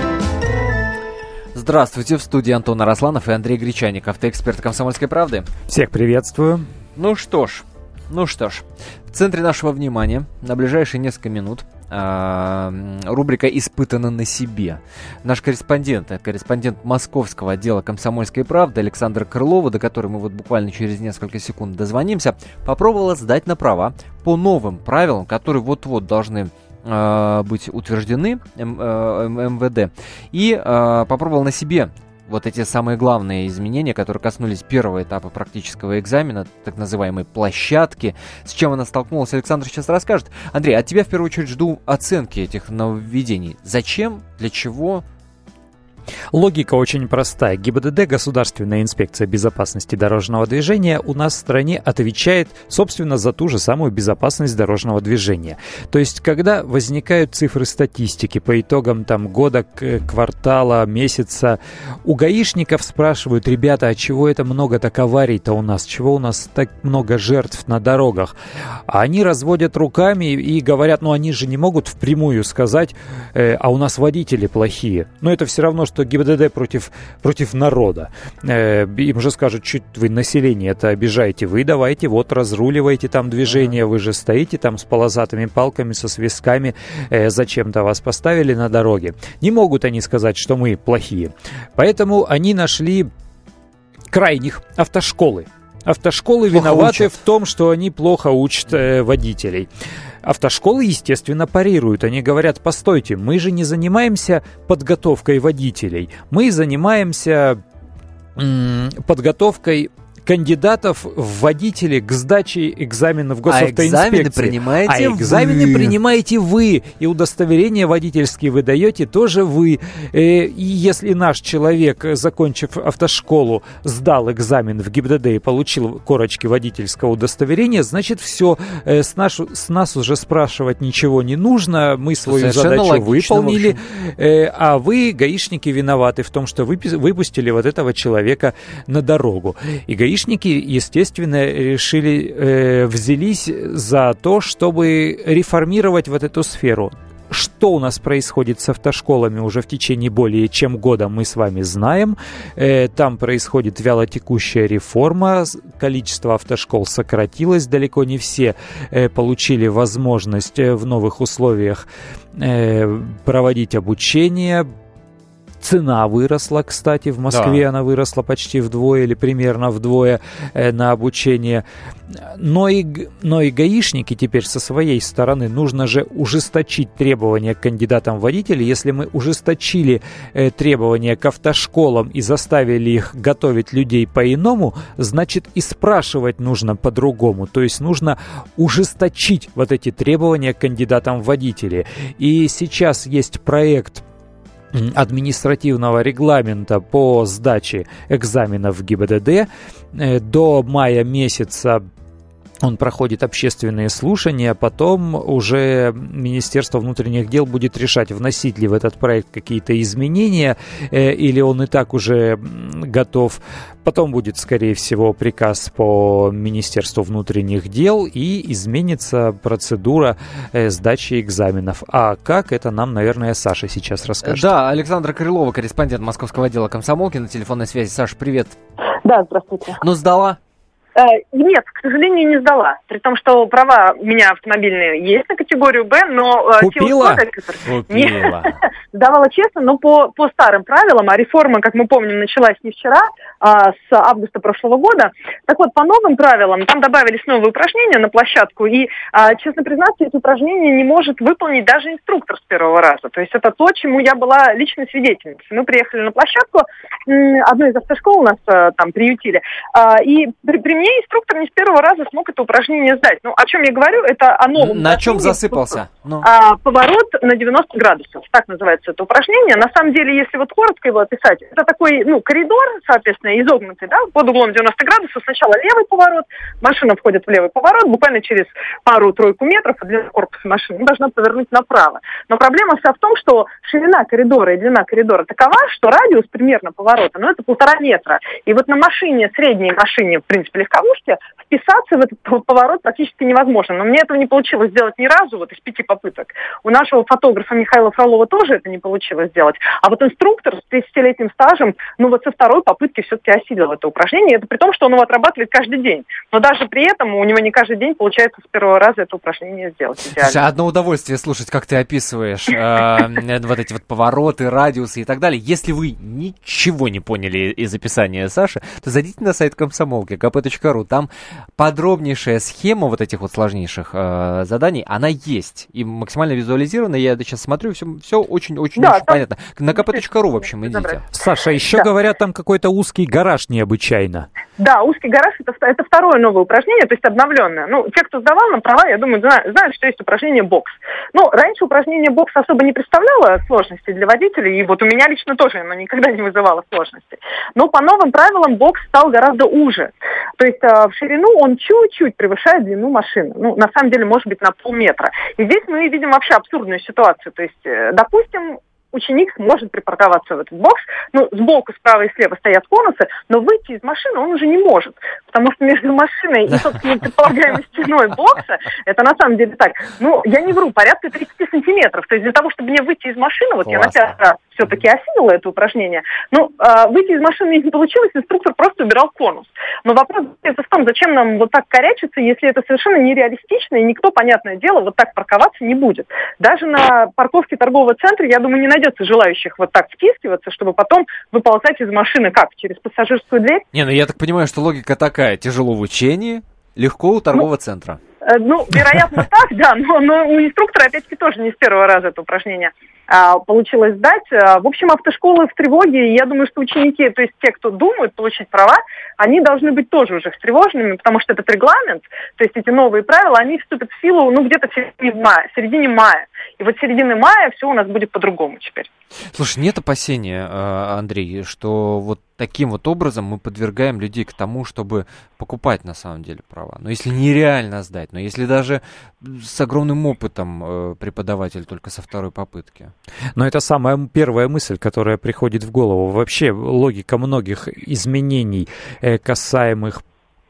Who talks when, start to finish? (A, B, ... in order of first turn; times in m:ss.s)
0:01.5-0:05.5 A
0:05.7-0:06.7 B
0:07.0-0:45.0 A
0:46.3-1:08.3 B
1:08.9-1:33.1 B
1:34.1-1:39.7 B
1:36.5-1:37.1 A
1:40.2-1:47.6 B
1:48.4-2:41.8 B
1:53.5-1:56.0 A
2:12.2-2:13.8 A
2:42.4-2:44.7 B
2:45.6-2:51.6 B
2:47.3-2:47.7 A
2:52.2-3:14.0 B
3:14.7-3:21.8 B
3:22.6-3:44.6 B
3:44.2-3:48.6 A
3:49.0-3:49.8 C
3:49.8-3:50.4 A
3:51.0-5:10.4 C
3:56.6-3:57.2 B
3:57.6-3:58.6 A
4:24.5-4:26.3 A
5:10.1-5:31.0 A
5:28.8-5:29.2 C
5:30.7-5:31.0 C
5:31.1-5:34.3 B
5:34.6-6:33.6 C
6:13.6-6:14.1 A
6:33.7-6:38.0 A
6:38.2-6:58.9 C
6:59.3-7:12.9 A
7:13.4-7:20.0 B